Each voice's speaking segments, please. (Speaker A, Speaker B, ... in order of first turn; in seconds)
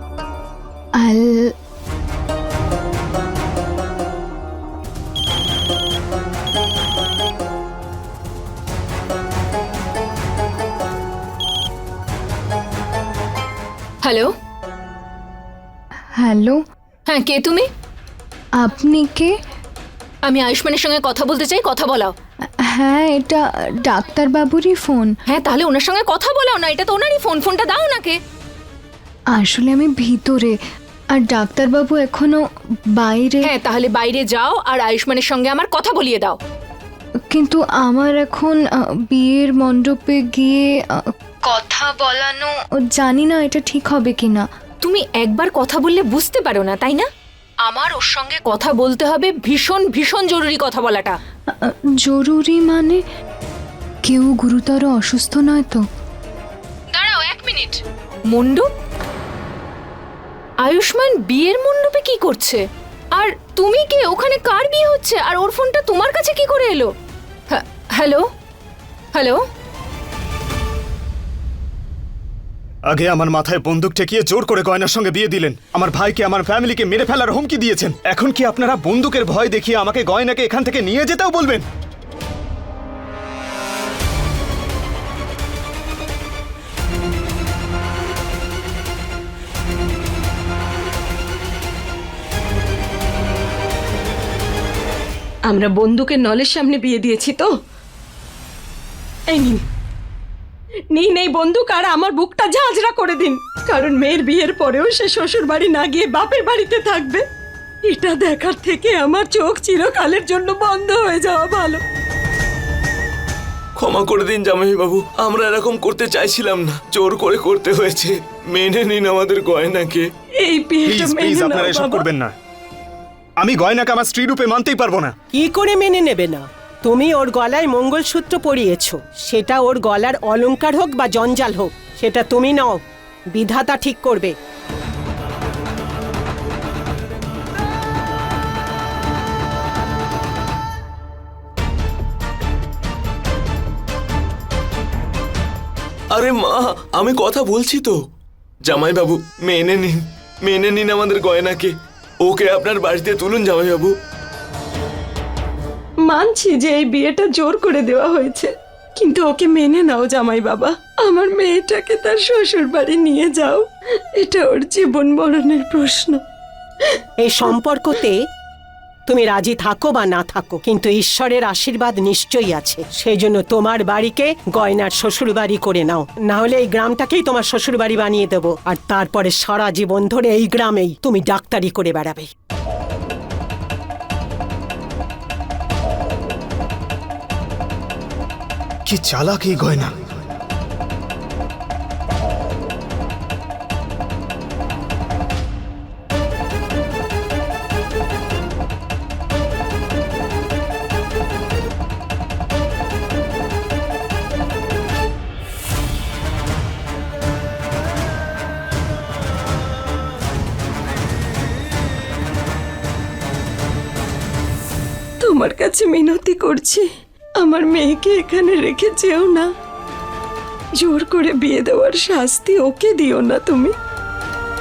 Speaker A: 1.0-1.5, 16.2-16.6, 18.6-19.3, 22.6-25.1, 29.4-30.6, 31.2-32.4, 33.0-33.5, 37.3-44.5, 51.6-53.0, 54.0-55.8
Speaker B: 14.0-14.3, 17.1-17.7, 20.2-22.1, 25.3-28.2, 33.4-36.4, 44.8-47.1, 47.6-51.2, 56.9-58.7, 60.6-62.6, 63.1-66.9, 67.5-68.2, 69.2-69.4
Speaker C: 72.9-81.7, 120.8-122.3, 123.4-125.1, 188.9-189.9
Speaker D: 95.5-97.5, 99.3-99.6, 100.9-107.2, 107.9-111.8, 120.4-122.0, 156.1-163.7, 164.2-166.2, 215.2-216.9, 217.4-219.5, 220.8-223.7
Speaker E: 113.8-120.1, 146.1-148.0, 148.7-153.9
Speaker F: 125.3-134.3, 167.2-168.2, 169.1-182.3